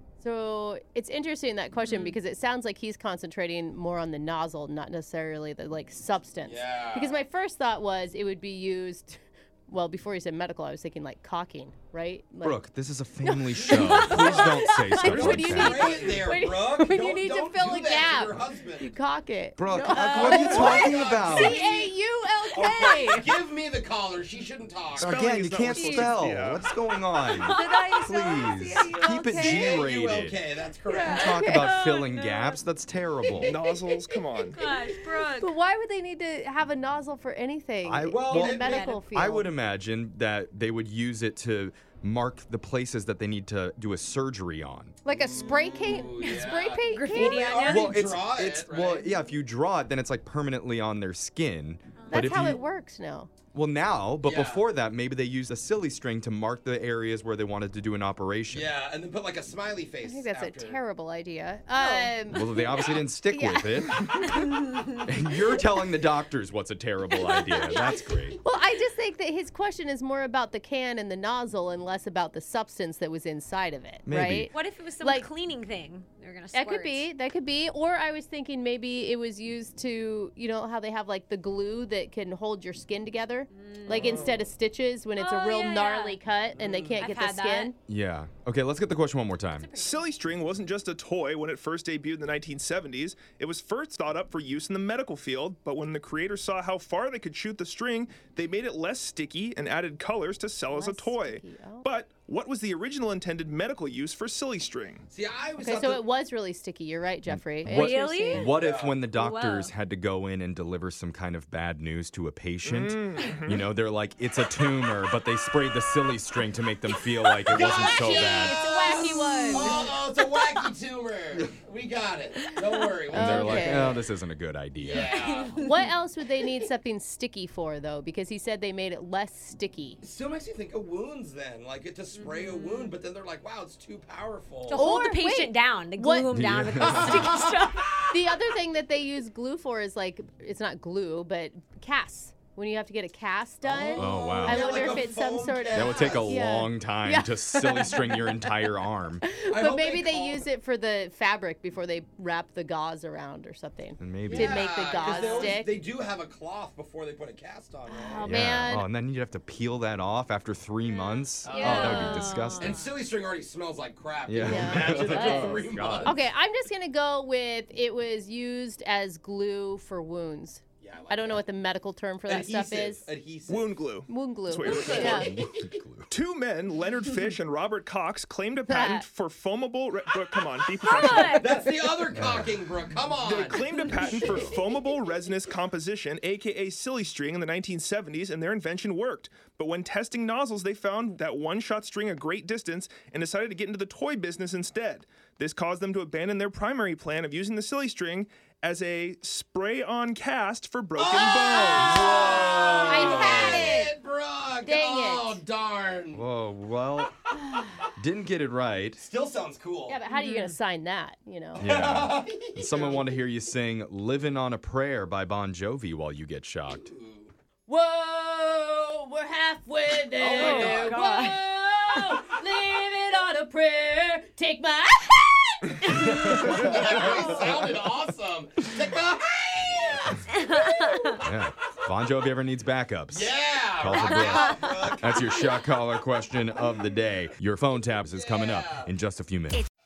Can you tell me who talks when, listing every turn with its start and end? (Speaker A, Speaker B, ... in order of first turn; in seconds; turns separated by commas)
Speaker A: 0.2-12.6, Speaker B: 1.8-2.2, Speaker C: 6.4-7.2, Speaker D: 12.4-16.0, Speaker C: 13.5-18.9, Speaker A: 13.6-23.3, Speaker B: 13.9-14.1, Speaker D: 19.6-21.6, Speaker B: 19.9-20.3, Speaker C: 20.1-22.0, Speaker E: 20.3-20.8, Speaker E: 22.5-23.2, Speaker C: 22.5-25.2, Speaker D: 25.0-30.4, Speaker E: 25.0-26.7, Speaker B: 25.8-26.1, Speaker B: 27.3-29.3, Speaker A: 27.4-29.8, Speaker C: 29.2-31.6, Speaker A: 30.9-31.8, Speaker D: 31.1-33.6, Speaker B: 31.5-32.6, Speaker E: 33.4-34.6, Speaker B: 34.5-35.5, Speaker A: 35.4-39.5, Speaker D: 37.8-45.0, Speaker C: 38.1-38.9, Speaker B: 38.5-39.0, Speaker A: 45.0-47.6, Speaker C: 45.1-49.2, Speaker B: 46.2-48.0, Speaker D: 47.6-52.6, Speaker B: 52.0-52.5, Speaker A: 52.1-53.3, Speaker D: 53.5-58.7, Speaker C: 54.2-54.6, Speaker C: 58.5-60.8, Speaker A: 60.0-64.3, Speaker B: 61.8-62.2, Speaker D: 62.3-64.3, Speaker D: 65.0-68.4, Speaker B: 67.2-67.9, Speaker A: 68.4-75.3, Speaker D: 74.1-74.5, Speaker B: 74.5-77.1, Speaker A: 76.5-87.8, Speaker B: 83.5-84.1, Speaker C: 83.9-84.5, Speaker B: 85.1-86.2, Speaker C: 86.6-87.0, Speaker B: 87.0-87.7, Speaker D: 87.9-89.7, Speaker B: 89.6-90.1, Speaker E: 89.8-105.1, Speaker A: 100.7-101.9, Speaker C: 105.1-106.0, Speaker A: 105.6-108.5, Speaker D: 107.3-118.6, Speaker B: 107.7-108.5, Speaker C: 108.4-109.0, Speaker B: 109.1-109.7, Speaker E: 112.6-113.6, Speaker C: 117.4-124.1, Speaker A: 117.7-119.9, Speaker A: 123.1-124.0, Speaker D: 123.1-125.1, Speaker C: 124.8-125.6, Speaker B: 124.9-125.9, Speaker A: 125.6-130.0, Speaker C: 130.0-134.9, Speaker B: 132.2-132.9, Speaker B: 134.7-138.0, Speaker A: 134.7-136.3, Speaker D: 136.3-137.4, Speaker C: 136.8-138.1, Speaker A: 138.1-148.5, Speaker C: 143.6-146.4, Speaker D: 143.9-144.7, Speaker D: 145.7-149.2, Speaker A: 149.2-155.7, Speaker C: 149.5-150.5, Speaker D: 154.0-154.7, Speaker C: 154.3-158.4, Speaker A: 157.9-158.9, Speaker B: 157.9-158.3, Speaker D: 158.2-162.8, Speaker B: 161.0-162.8, Speaker C: 161.4-166.2, Speaker A: 161.7-162.2, Speaker D: 164.3-166.2, Speaker A: 164.4-173.1, Speaker B: 165.0-165.7, Speaker C: 170.8-171.5, Speaker C: 172.3-173.7, Speaker E: 173.5-175.3, Speaker A: 174.1-175.3, Speaker C: 174.6-175.8, Speaker D: 174.8-176.1, Speaker E: 176.1-181.4, Speaker A: 178.7-179.1, Speaker B: 180.8-181.7, Speaker C: 181.3-184.8, Speaker D: 182.1-182.5, Speaker E: 183.2-203.0, Speaker C: 200.9-206.2, Speaker A: 201.6-202.1, Speaker A: 202.8-203.9, Speaker A: 204.6-205.4, Speaker D: 206.1-207.1, Speaker C: 207.5-207.8, Speaker D: 208.0-209.0, Speaker C: 209.0-210.0, Speaker A: 209.9-211.7, Speaker B: 210.1-210.6, Speaker C: 211.6-213.0, Speaker D: 211.6-216.9, Speaker C: 216.7-217.3, Speaker A: 217.7-227.4, Speaker C: 220.2-221.1, Speaker B: 220.3-221.4, Speaker C: 226.1-231.1, Speaker B: 230.5-231.1, Speaker D: 231.2-239.6, Speaker C: 233.1-235.5, Speaker B: 234.3-234.7, Speaker C: 238.1-238.9